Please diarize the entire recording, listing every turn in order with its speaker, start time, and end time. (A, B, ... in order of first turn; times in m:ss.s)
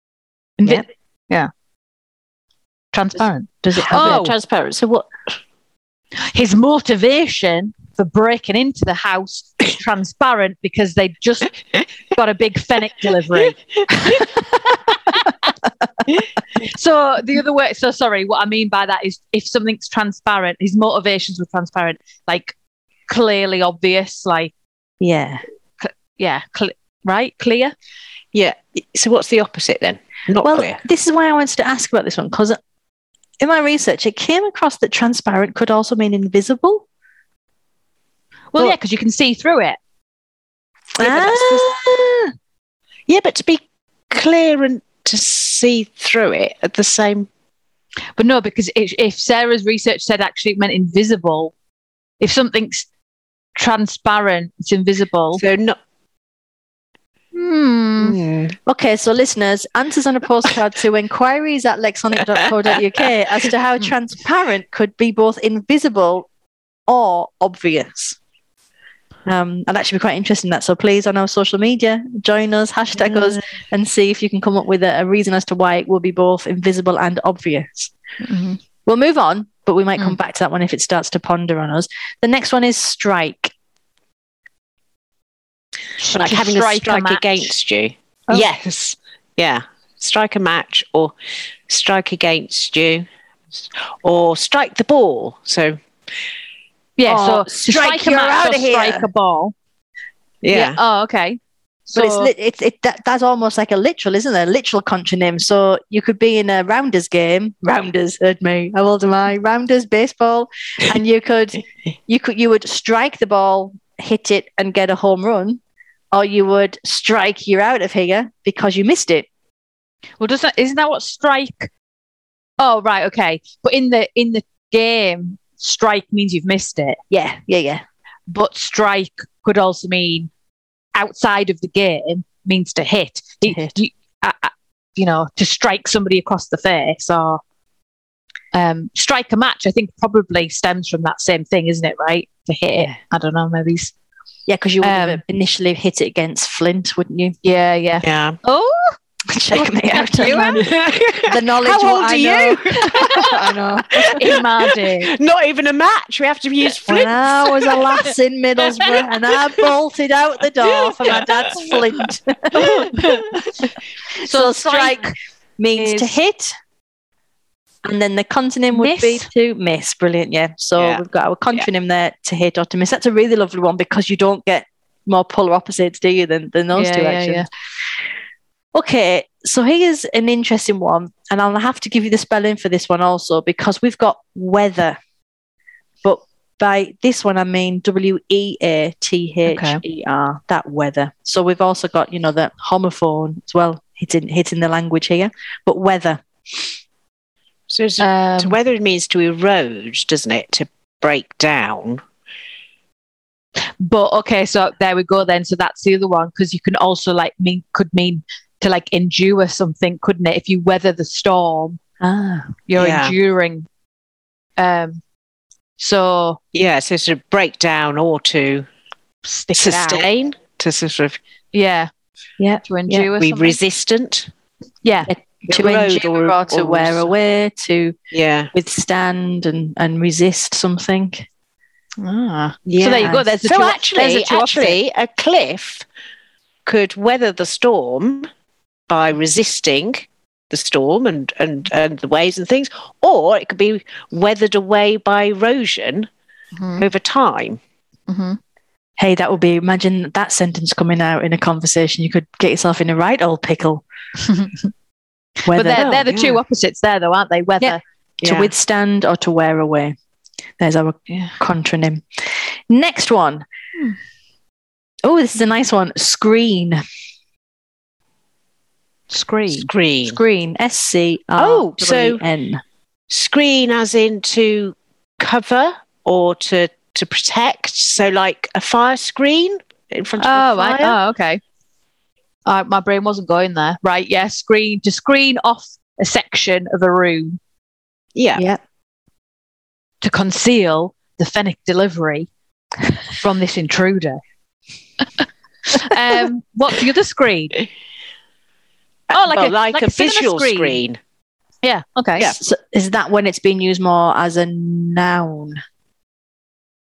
0:00.6-0:01.5 A
0:02.9-0:04.3 A
0:03.6-0:04.3 B
0:03.8-0:05.1 C
0:06.2-0:14.4 A
0:13.9-0:14.3 C
0:14.9-0:15.3 A
0:16.5-0:22.5 A
0:23.1-0:24.5 A
0:25.0-0:25.4 B
0:25.8-0:27.7 A
0:28.3-0:30.8 C
0:30.4-0:32.6 B
0:33.4-0:36.8 B
0:38.5-0:39.8 A
0:41.0-0:42.3 B
0:41.0-0:41.8 C
0:43.1-0:47.3 C
0:48.2-0:51.5 A
0:52.2-0:52.9 A
0:53.6-0:55.4 A
0:55.4-0:55.8 C
0:57.3-0:58.2 A
0:58.0-0:58.6 C
0:58.6-1:06.3 B
1:06.9-1:08.2 B
1:09.2-1:17.9 B
1:13.0-1:13.4 A
1:18.2-1:18.6 A
1:18.8-1:23.5 B
1:26.0-1:27.5 A
1:26.1-1:31.1 C
1:31.7-1:33.1 C
1:33.6-1:35.8 C
1:37.0-1:39.5 A
1:37.0-1:39.1 B
1:40.4-1:40.8 C
1:40.5-1:42.3 A
1:41.9-1:55.6 B
1:56.1-1:59.3 B
2:00.2-2:01.7 A
2:02.6-2:07.0 A
2:07.1-2:07.8 B
2:08.3-2:10.3 A
2:10.9-2:17.4 A
2:13.4-2:13.7 B
2:18.5-2:23.9 A
2:24.5-2:27.4 B
2:24.8-2:25.2 A
2:27.4-2:29.0 A
2:28.0-2:28.4 C
2:29.3-2:30.7 B
2:30.0-2:30.6 A
2:30.2-2:38.0 C
2:31.3-2:34.2 B
2:34.1-2:35.1 A
2:36.8-2:43.2 B
2:40.7-2:41.8 C
2:42.6-2:43.3 A
2:42.6-2:42.9 C
2:44.2-2:45.1 A
2:44.2-2:46.5 B
2:45.8-2:46.2 A
2:47.8-2:57.5 B
2:48.7-2:49.3 A
2:50.8-2:51.0 C
2:56.7-2:57.5 A
2:58.7-3:05.0 B
3:06.0-3:16.7 B
3:09.4-3:09.8 A
3:17.7-3:22.0 C
3:18.0-3:18.6 A
3:23.8-3:31.8 A
3:32.0-3:32.5 B
3:32.7-3:33.7 A
3:32.8-3:33.1 C
3:34.6-3:35.0 A
3:35.8-3:36.4 A
3:36.5-3:38.7 C
3:39.2-3:40.0 A
3:39.5-3:41.2 C
3:41.5-3:43.6 A
3:43.1-3:44.3 C
3:44.8-3:45.1 A
3:45.1-3:48.0 B
3:45.5-3:47.1 C
3:48.1-3:48.5 C
3:48.5-3:51.3 B
3:52.0-3:54.8 A
3:52.7-3:55.8 C
3:56.6-3:58.3 C
3:58.9-4:06.1 C
4:06.6-4:06.8 A
4:06.8-4:07.6 C
4:08.1-4:08.4 A
4:09.0-4:13.8 B
4:14.2-4:14.7 A
4:15.4-4:15.8 B
4:15.5-4:17.8 A
4:15.7-4:16.4 C
4:17.6-4:20.0 B
4:18.2-4:18.5 C
4:20.6-4:23.4 B
4:21.1-4:21.4 A
4:25.0-4:26.8 B
4:29.1-4:29.7 A
4:29.5-4:30.2 C
4:30.0-4:32.6 B
4:31.4-4:32.2 C
4:33.1-4:41.0 C
4:40.2-4:41.4 A
4:42.4-4:47.4 A
4:48.2-4:48.4 C
4:50.0-4:52.3 A
4:53.1-4:54.2 A
4:55.2-4:57.6 A
4:59.1-5:01.0 C
4:59.1-5:00.8 A
5:01.6-5:02.3 A
5:02.3-5:05.6 B